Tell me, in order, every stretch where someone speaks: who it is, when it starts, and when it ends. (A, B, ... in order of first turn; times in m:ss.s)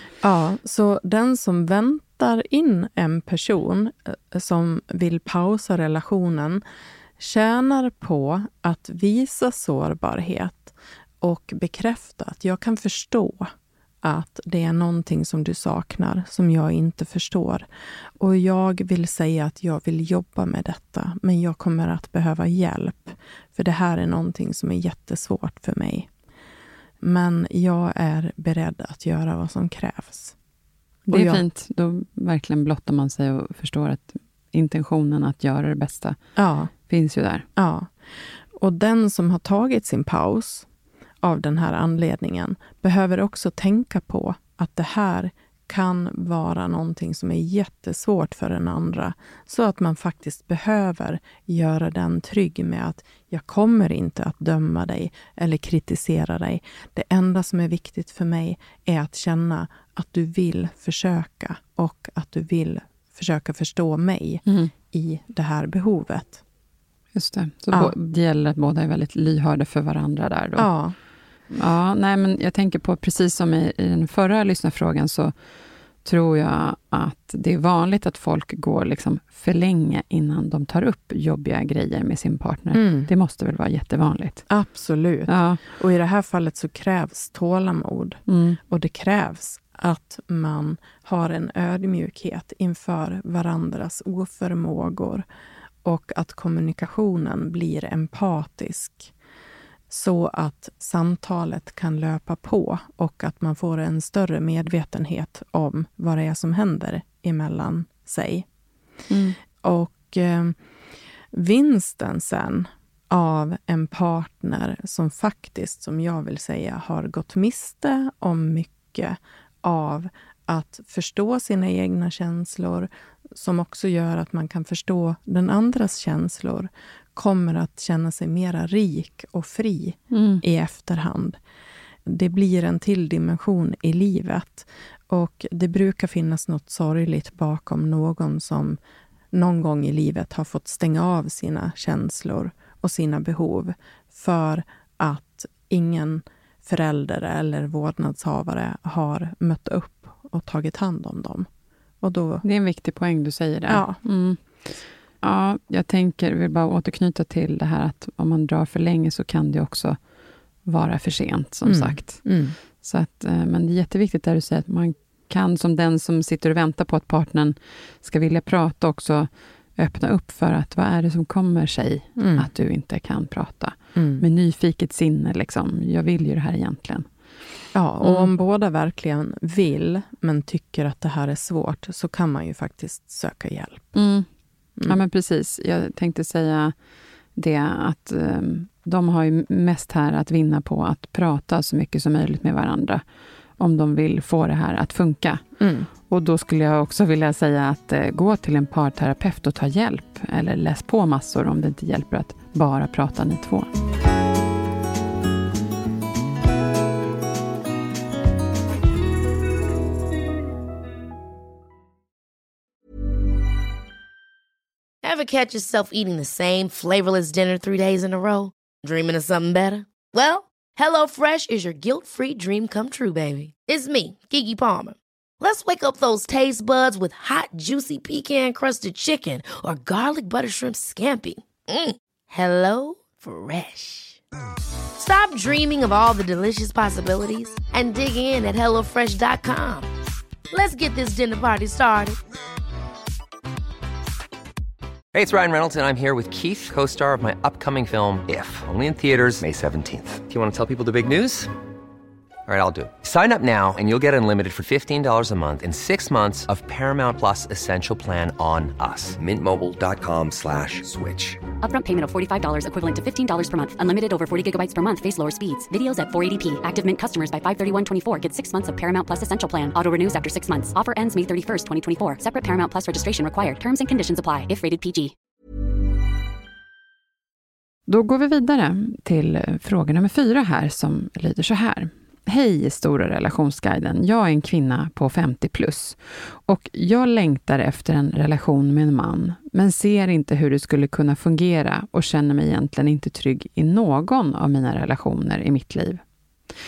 0:00.2-0:06.6 A
0:07.2-0:13.5 A
0:14.0-0:17.7 A
0:18.2-0:26.1 A
0:27.0-0:30.3 A
0:31.0-0:31.4 A
0:31.1-0:36.2 B
0:36.4-0:36.7 A
0:36.9-0:37.4 B
0:37.6-0:37.9 A
0:38.5-0:40.7 A
0:41.2-1:06.4 A
1:04.4-1:04.7 B
1:07.1-1:10.7 B
1:10.6-1:11.0 A
1:11.5-1:15.3 B
1:16.0-1:24.5 B
1:22.7-1:23.1 A
1:24.5-1:35.2 A
1:25.3-1:25.6 B
1:28.3-1:28.6 B
1:35.8-1:39.1 A
1:39.9-1:48.5 A
1:49.1-1:49.4 B
1:49.6-1:50.6 A
1:51.3-2:11.4 A
2:10.1-2:10.4 B
2:12.0-2:18.8 A
2:19.3-2:31.5 A
2:32.0-2:32.4 A
2:32.4-2:34.7 B
2:33.7-2:34.0 A
2:35.2-2:40.0 B
2:40.6-2:42.2 B
2:41.6-2:42.5 A
2:42.8-2:57.0 B
2:52.2-2:52.5 A
2:53.9-2:54.2 A
2:57.7-3:03.9 A
2:58.0-2:58.3 B
3:03.9-3:04.2 B
3:04.8-3:06.7 B
3:07.4-3:13.0 B
3:13.6-3:15.4 B
3:15.6-3:15.9 A
3:16.1-3:23.7 B
3:35.0-3:54.2 C
3:55.0-3:59.9 C
4:00.5-4:02.2 C
4:05.1-4:11.5 D
4:12.5-4:21.4 D
4:21.6-4:35.1 E
4:37.9-4:56.0 B